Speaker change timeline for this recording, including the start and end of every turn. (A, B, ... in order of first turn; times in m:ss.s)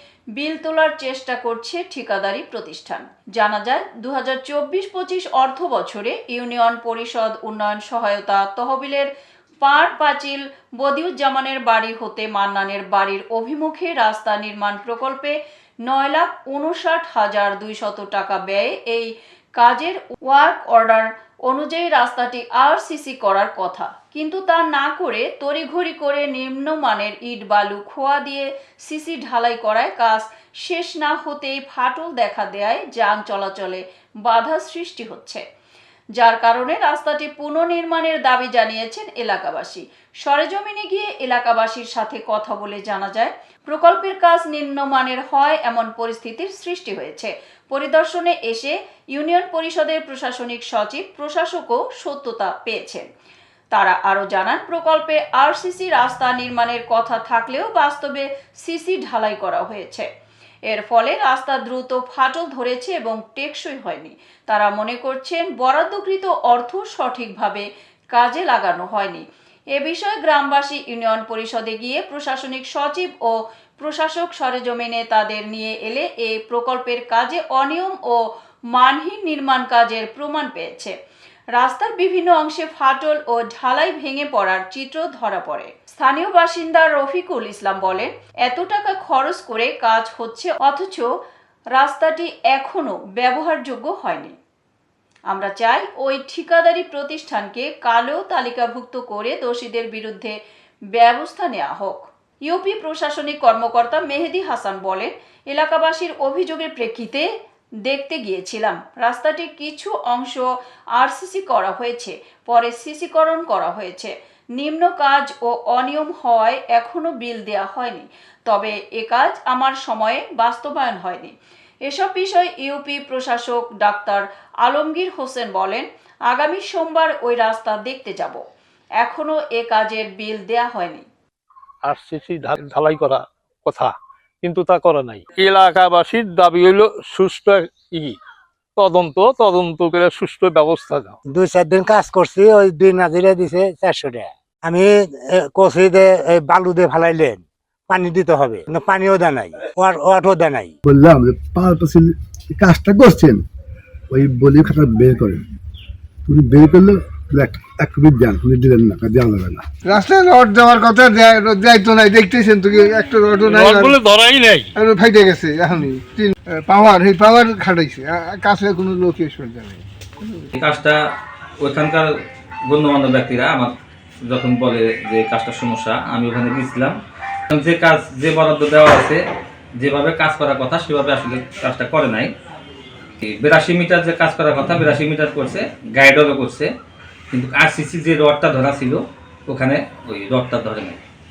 0:00.4-0:09.1 A
0:09.6-0:35.4 A
0:36.2-0:53.1 A
0:53.7-1:00.1 A
1:00.7-1:20.9 A
1:21.6-1:31.1 A
1:31.8-1:34.3 A
1:35.3-1:40.4 A
1:40.9-1:47.3 A
1:47.8-1:50.5 A
1:51.0-2:01.3 A
2:01.8-2:08.4 A
2:09.0-2:11.0 A
2:11.8-2:18.2 B
2:18.8-2:21.2 B
2:21.3-2:30.7 C
2:30.8-2:33.4 D
2:34.1-2:35.4 D
2:36.2-2:39.6 D
2:39.8-2:44.0 E
2:43.4-2:44.7 B
2:44.8-2:50.5 E
2:50.5-2:51.0 F
2:51.6-2:52.1 F
2:52.7-2:53.7 F
2:54.3-2:57.0 F
2:57.5-2:59.2 F
2:59.8-3:02.3 F
3:03.2-3:06.7 F
3:07.3-3:11.0 F